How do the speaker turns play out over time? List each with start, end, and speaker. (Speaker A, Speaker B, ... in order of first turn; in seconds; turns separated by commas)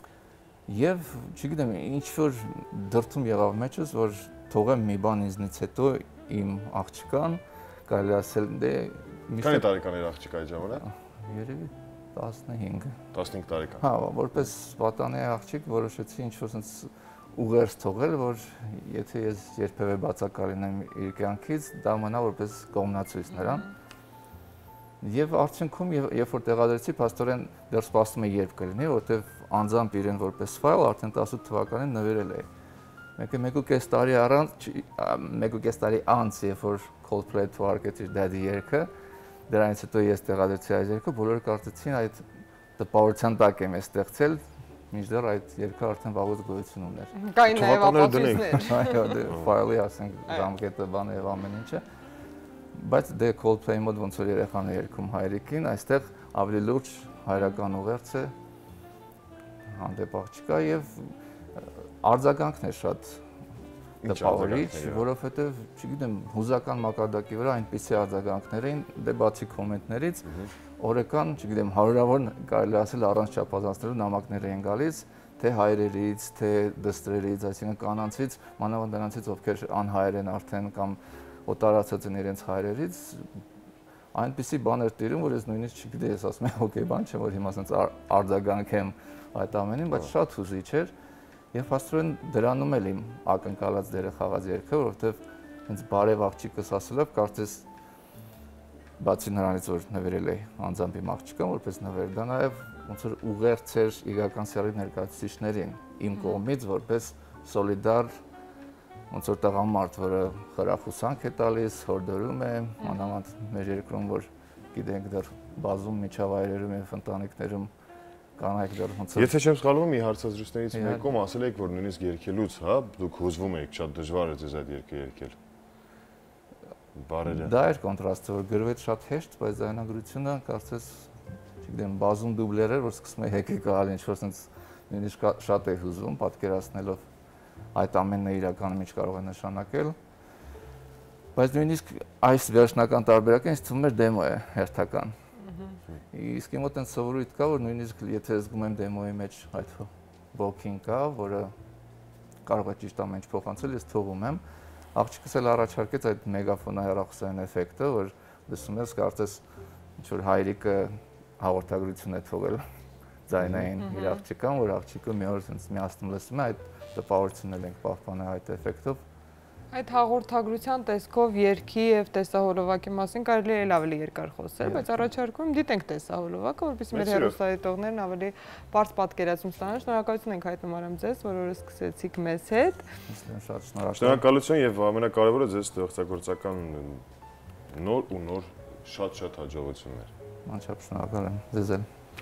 Speaker A: 0.7-9.7, Speaker B: 9.4-10.8, Speaker A: 10.8-13.0, Speaker B: 13.1-13.8, Speaker A: 13.8-23.6, Speaker C: 23.4-23.7, Speaker A: 25.0-32.5, Speaker A: 33.2-38.9, Speaker A: 39.5-42.2, Speaker A: 42.8-44.4, Speaker A: 44.9-47.1, Speaker C: 47.1-49.2, Speaker B: 47.4-48.6, Speaker A: 48.5-51.8, Speaker A: 52.7-58.3, Speaker A: 59.7-63.2, Speaker B: 64.0-65.1, Speaker A: 64.0-70.2, Speaker A: 70.8-83.3, Speaker A: 84.1-90.9, Speaker A: 91.5-97.6, Speaker A: 99.0-108.1, Speaker A: 109.1-117.7, Speaker C: 112.8-113.1, Speaker A: 118.4-119.3, Speaker B: 119.1-125.3, Speaker A: 120.7-121.0, Speaker B: 127.0-127.5, Speaker A: 127.2-131.1, Speaker A: 131.6-137.0, Speaker A: 137.7-139.9, Speaker A: 141.3-145.1, Speaker A: 146.1-151.5, Speaker A: 152.4-154.4, Speaker A: 154.9-159.4, Speaker A: 160.0-162.6, Speaker A: 163.3-169.0, Speaker B: 163.4-163.6, Speaker C: 163.8-164.2, Speaker C: 169.7-182.8, Speaker A: 174.6-175.1, Speaker B: 176.9-177.3, Speaker A: 183.1-184.2, Speaker B: 183.9-187.0, Speaker B: 187.7-190.1, Speaker A: 190.4-191.8